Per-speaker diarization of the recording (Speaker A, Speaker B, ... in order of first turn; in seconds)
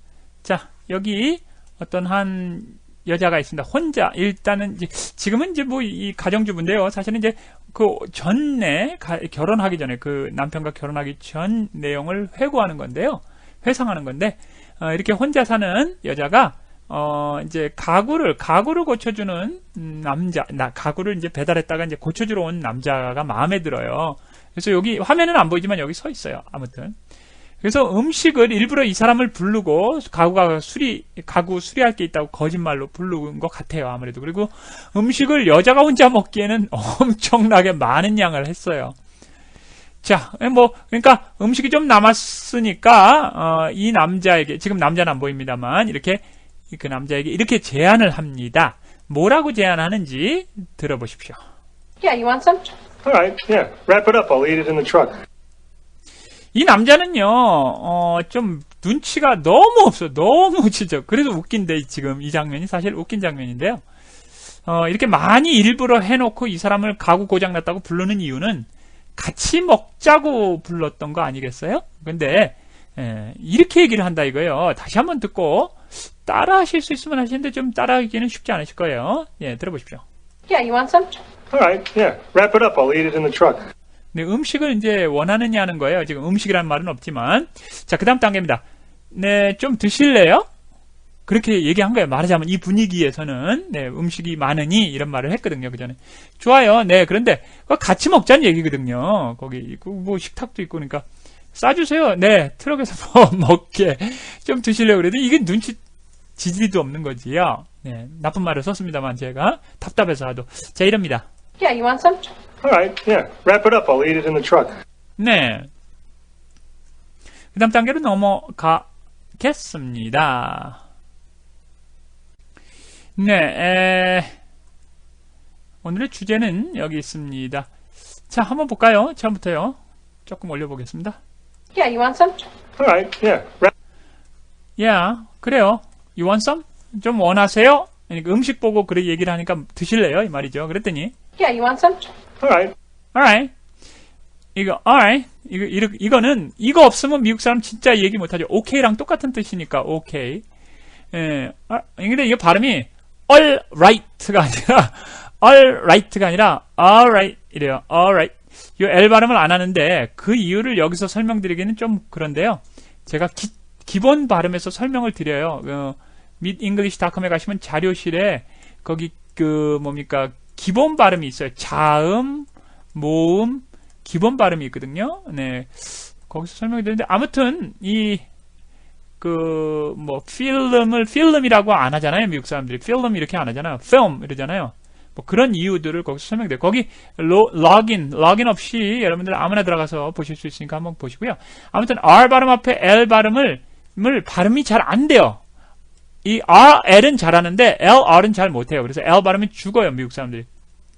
Speaker A: 0.4-27.0, 27.6-39.0, 40.0-51.4, 56.5-63.8, 64.7-80.0, 84.1-90.5, 91.3-105.8, 106.4-111.3, 115.2-115.7, 117.5-120.8, 123.2-124.3, 125.8-127.7, 128.3-131.2, 134.8-141.2, 143.1-143.5, 144.6-150.4, 151.1-178.2, 179.2-195.4, 196.2-200.5
Speaker B: 52.0-52.8, 80.5-81.2, 111.6-112.3, 131.7-132.5, 141.4-142.1
Speaker C: 53.0-55.2, 81.5-83.7, 112.6-114.8, 132.8-133.7, 142.4-142.8